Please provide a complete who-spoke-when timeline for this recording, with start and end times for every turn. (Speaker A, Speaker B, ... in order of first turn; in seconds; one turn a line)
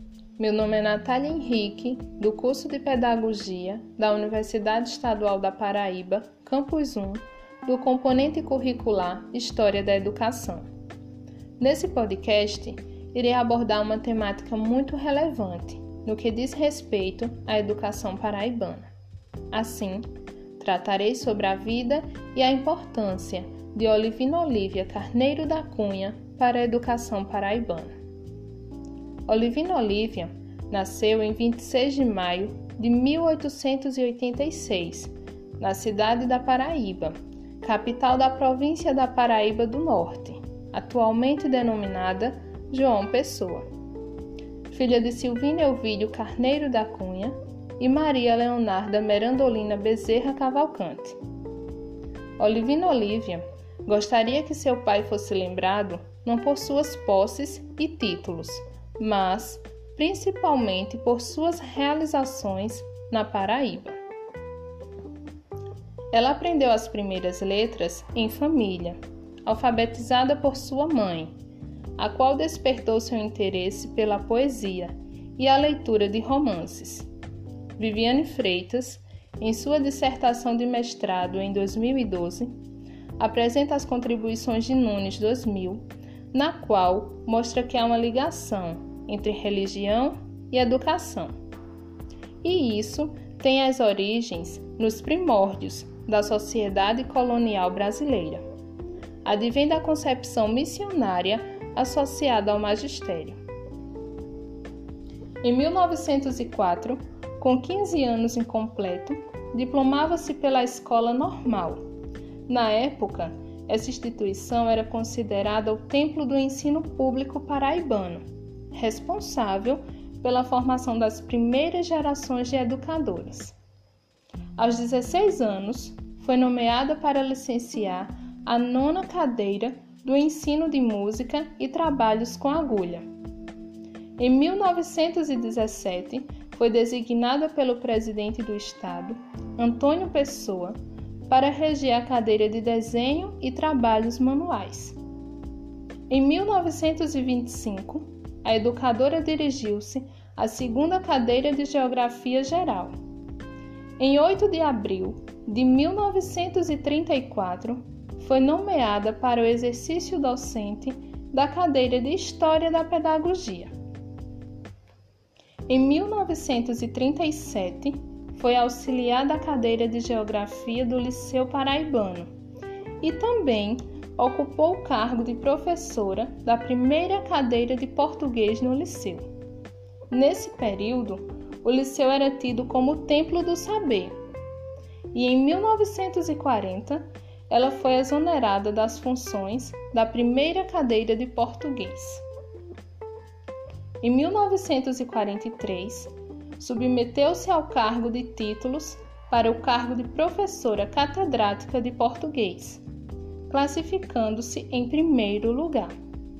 Speaker A: 0.4-10.6
Speaker A: 11.6-18.9
Speaker A: 19.5-20.1
Speaker A: 20.6-27.9
Speaker A: 29.3-43.7
Speaker A: 44.7-51.2
Speaker A: 52.4-64.0
Speaker A: 66.1-71.3
Speaker A: 72.0-77.1
Speaker A: 77.8-82.5
Speaker A: 83.2-91.3
Speaker A: 92.4-98.4
Speaker A: 99.2-103.4
Speaker A: 105.4-111.8
Speaker A: 112.5-123.6
Speaker A: 124.6-133.0
Speaker A: 134.2-140.8
Speaker A: 141.3-145.0
Speaker A: 146.1-152.9
Speaker A: 154.0-163.7
Speaker A: 165.7-172.3
Speaker A: 173.0-179.3
Speaker A: 180.1-184.2
Speaker A: 185.1-192.2
Speaker A: 194.0-202.8
Speaker A: 203.5-205.9